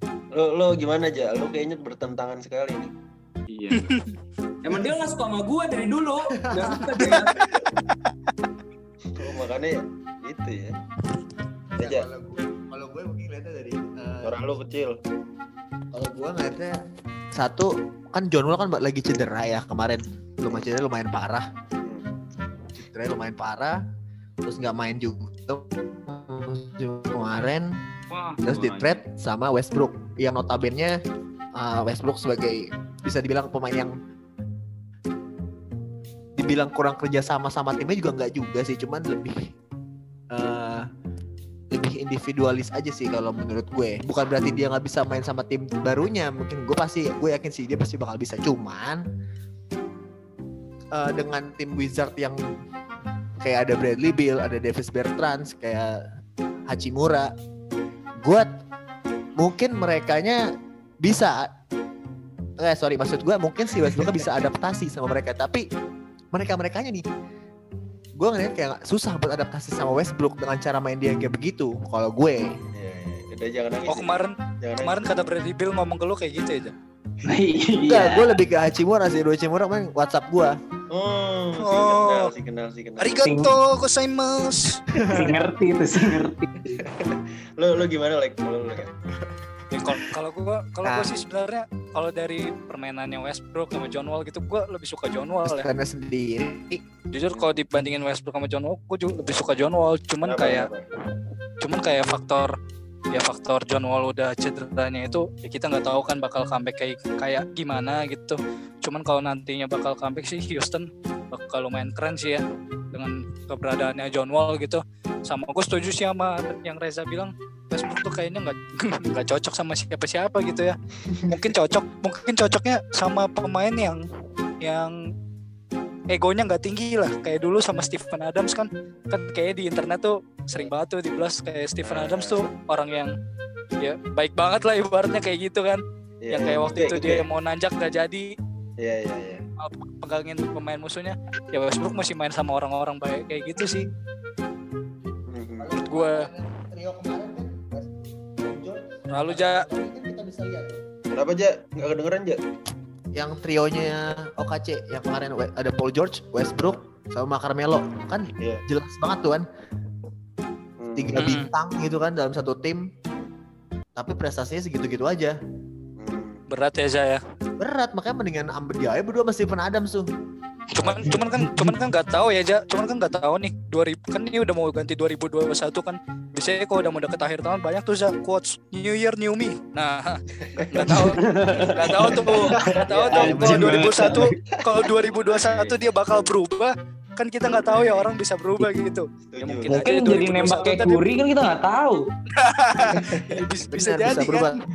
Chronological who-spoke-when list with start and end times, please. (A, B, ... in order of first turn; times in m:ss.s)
0:00.3-0:02.9 A
0:03.5-0:03.9 B
0:03.7-0:04.1 C
0:04.6-0:07.4 D
0:06.5-0:07.3 E
0:09.1-0:10.8 A
0:11.8-0:14.4 E
0:11.8-0:12.0 A
0:14.2-0:15.0 A
0:15.9-0:16.8 E
0:17.3-0:21.4 E
0:22.7-0:23.8 E
0:24.4-0:27.8 E
0:28.1-0:29.0 B
0:28.4-0:31.0 E
0:31.6-0:33.9 E
0:36.4-0:39.5 E
0:40.3-0:40.8 E
0:41.7-0:49.0 E
0:50.9-0:52.4 E
0:53.4-0:56.0 E
0:56.7-0:57.3 E
0:58.2-0:58.5 E
0:59.4-1:00.4 E
1:01.0-1:01.5 E
1:02.6-1:05.6 E
1:06.3-1:07.0 E
1:08.2-1:12.5 E
1:12.7-1:15.3 A
1:13.8-1:16.7 C
1:17.2-1:18.3 D
1:17.8-1:20.6 E
1:20.9-1:23.2 A
1:21.6-1:22.3 C
1:23.0-1:24.8 C
1:23.2-1:23.5 D
1:25.0-1:25.3 E
1:25.1-1:26.8 D
1:26.7-1:28.9 A
1:29.7-1:35.7 C
1:30.8-1:31.1 E
1:35.4-1:36.8 E
1:37.1-1:40.7 C
1:40.2-1:40.9 A
1:41.6-1:42.5 C
1:43.1-2:00.8 C
2:01.3-2:04.0 C
2:04.6-2:04.9 C
2:06.1-2:13.1 C
2:11.8-2:12.4 A
2:13.8-2:18.3 C
2:16.2-2:17.2 A
2:18.8-2:19.4 A
2:19.6-2:23.9 C
2:25.3-2:25.7 A
2:25.6-2:30.8 E
2:25.8-2:26.3 C
2:29.1-2:29.6 C
2:31.1-2:32.4 A
2:33.1-2:39.4 E
2:40.8-2:41.2 A
2:40.9-2:42.8 E
2:41.2-2:41.5 C
2:43.9-2:45.4 E
2:46.0-2:46.4 A
2:46.5-2:47.2 C
2:47.6-2:50.0 E
2:50.7-3:11.0 C
2:50.8-2:51.2 A
2:51.2-2:51.7 D
3:00.6-3:01.1 A
3:00.9-3:04.3 D
3:02.0-3:03.3 A
3:02.9-3:04.0 E
3:04.0-3:04.8 A
3:05.0-3:06.0 B
3:07.5-3:08.1 A
3:09.3-3:09.8 A
3:09.7-3:12.0 D
3:12.4-3:14.6 C
3:12.9-3:13.4 A
3:13.7-3:14.6 E